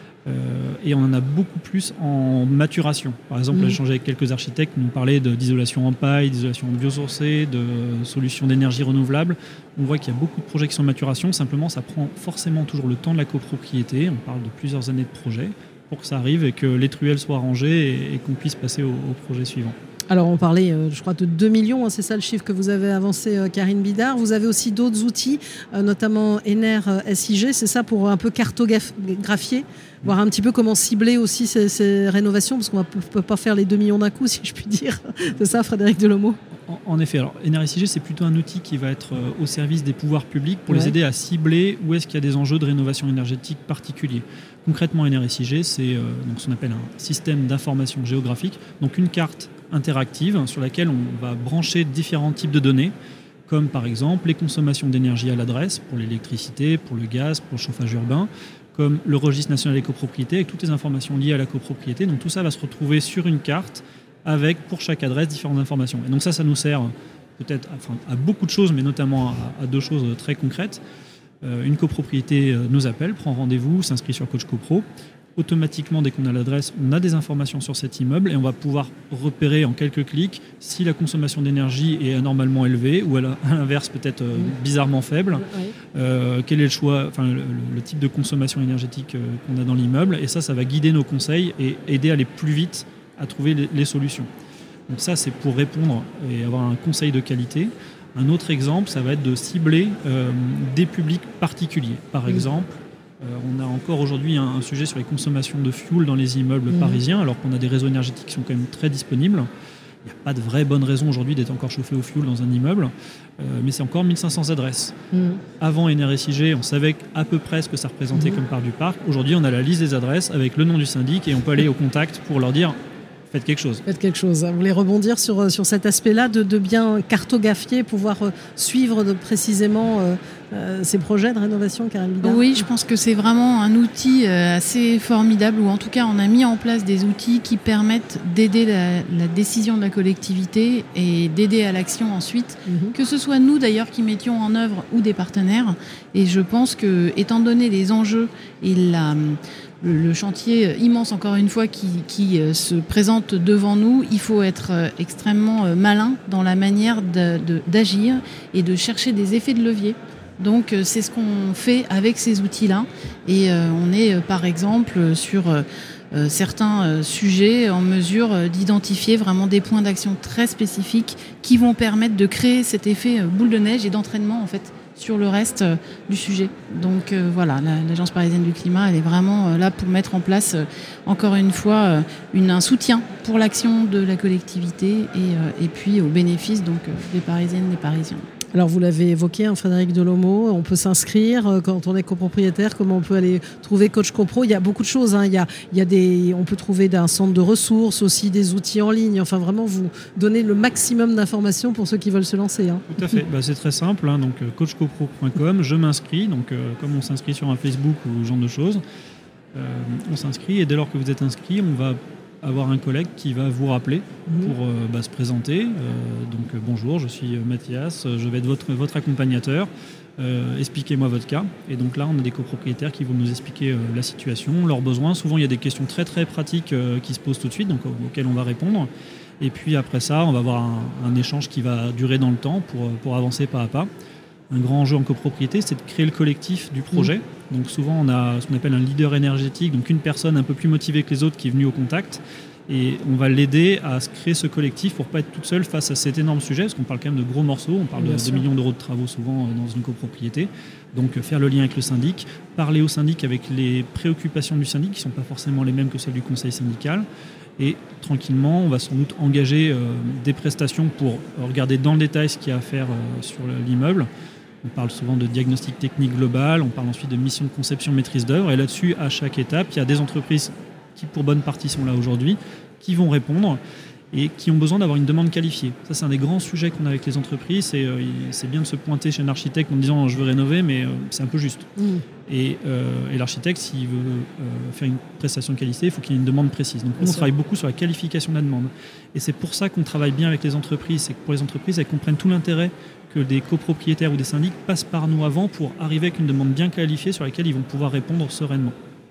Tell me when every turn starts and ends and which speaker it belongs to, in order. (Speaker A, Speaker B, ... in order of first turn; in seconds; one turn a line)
Speaker A: 0.3-19.8
Speaker B: 3.5-3.8
Speaker B: 20.1-36.4
Speaker A: 36.7-52.9
Speaker B: 40.7-41.0
Speaker A: 53.5-70.8
Speaker A: 71.4-94.3
Speaker B: 85.4-85.8
Speaker A: 94.9-109.5
Speaker B: 106.7-107.0
Speaker A: 110.0-115.0
Speaker B: 115.1-115.4
Speaker A: 115.6-122.8
Speaker B: 118.1-118.4
Speaker A: 123.3-123.8
Speaker B: 123.9-132.7
Speaker C: 132.2-188.2
Speaker B: 142.7-142.9
Speaker B: 188.5-202.8
Speaker A: 202.9-208.8
Speaker A: 209.5-233.9
Speaker B: 214.3-214.6
Speaker A: 234.5-257.1
Speaker B: 248.0-248.4
Speaker A: 257.6-264.1
Speaker A: 264.6-273.6
Speaker A: 274.1-281.7
Speaker B: 281.8-282.0
Speaker A: 282.3-298.8
Speaker B: 287.0-287.3